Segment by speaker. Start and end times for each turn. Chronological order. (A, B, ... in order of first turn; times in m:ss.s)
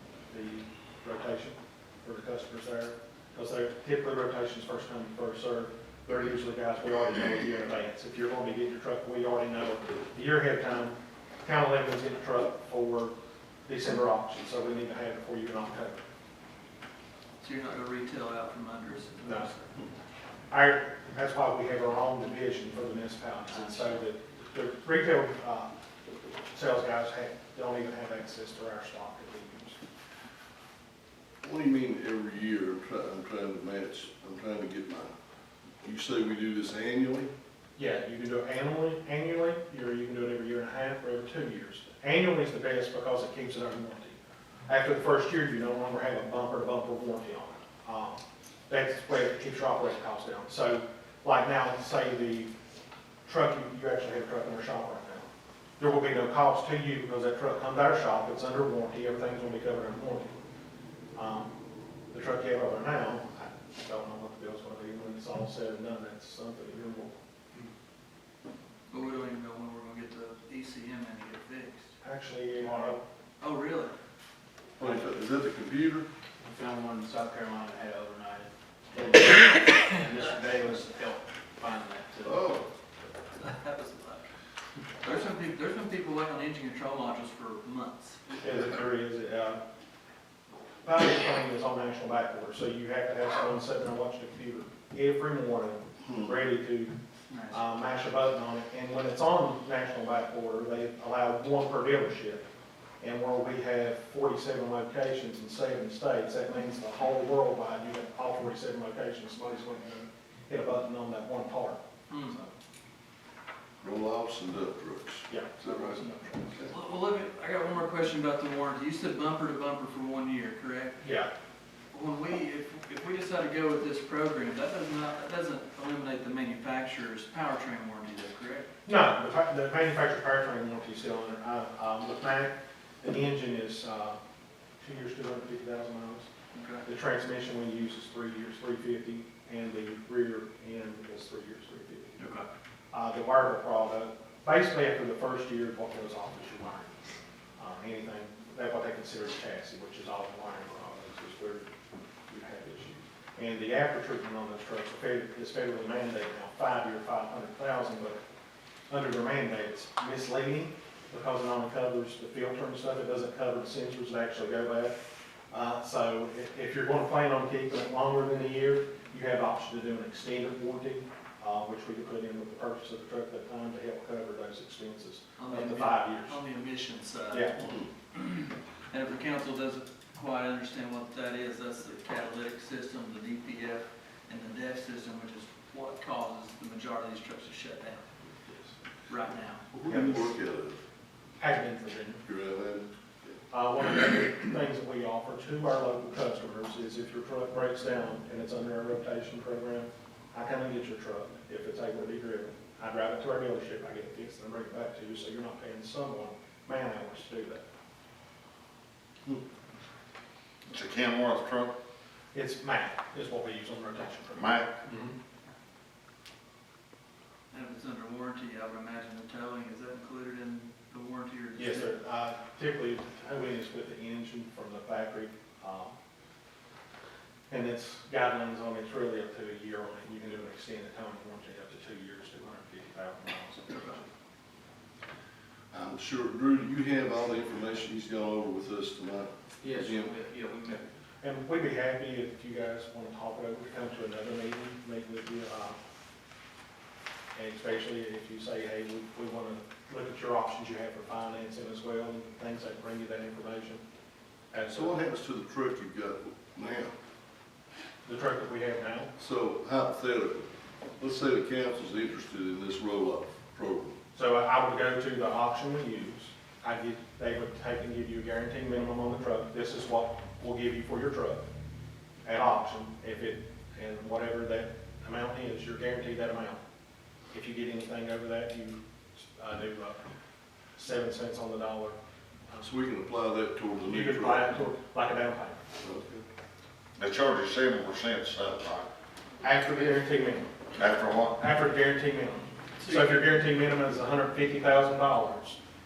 0:00.3-0:13.2 A
0:13.7-0:16.0 A
0:17.4-0:19.7 B
0:19.2-0:19.5 A
0:20.5-0:25.7 A
0:26.5-0:29.8 A
0:31.4-0:35.1 C
0:35.8-0:37.3 C
0:37.8-0:52.5 A
0:53.3-0:55.3 A
0:55.8-1:00.4 A
1:01.2-1:01.5 A
1:02.1-1:07.2 A
1:08.9-1:11.9 B
1:12.0-1:13.0 A
1:12.6-1:13.0 D
1:13.4-1:14.0 B
1:14.8-1:16.1 C
1:16.4-1:22.5 D
1:22.2-1:22.7 C
1:23.4-1:24.3 B
1:25.0-1:28.2 B
1:28.4-1:29.6 A
1:30.8-1:36.9 A
1:37.3-1:37.7 B
1:37.5-1:42.4 A
1:43.0-1:52.5 A
1:52.1-1:52.4 B
1:53.8-1:56.0 C
1:55.3-1:56.5 A
1:56.7-2:01.1 B
2:01.0-2:01.3 A
2:01.9-2:08.7 B
2:08.9-2:14.2 A
2:14.8-2:16.3 A
2:16.5-2:16.8 B
2:16.8-2:22.2 A
2:22.2-2:22.5 B
2:22.9-2:27.0 A
2:27.6-2:31.8 A
2:32.3-2:38.2 A
2:38.9-2:45.0 A
2:45.5-2:56.4 A
2:55.4-2:57.5 B
2:57.3-2:57.6 A
2:57.6-2:57.9 C
2:58.1-3:08.1 B
3:09.1-3:09.6 B
3:09.7-3:10.8 C
3:09.9-3:10.3 A
3:11.4-3:12.2 A
3:12.2-3:13.3 C
3:13.5-3:27.6 A
3:30.7-3:31.7 E
3:32.3-3:35.2 A
3:34.3-3:34.7 E
3:37.5-3:41.9 B
3:41.6-3:46.0 A
3:47.5-3:54.1 A
3:55.7-4:00.1 C
3:59.6-4:00.8 D
4:01.2-4:05.8 A
4:07.4-4:13.8 A
4:14.5-4:15.1 A
4:14.7-4:16.9 C
4:18.0-4:19.1 A
4:19.2-4:24.0 C
4:24.2-4:31.5 A
4:32.2-4:36.6 A
4:37.3-4:40.0 A
4:40.8-4:42.0 A
4:42.6-4:44.6 C
4:43.8-4:45.6 A
4:45.8-4:46.2 C
4:47.0-4:48.9 E
4:49.4-4:50.5 A
4:50.8-4:51.4 E
4:51.4-4:55.6 A
4:52.8-4:53.3 B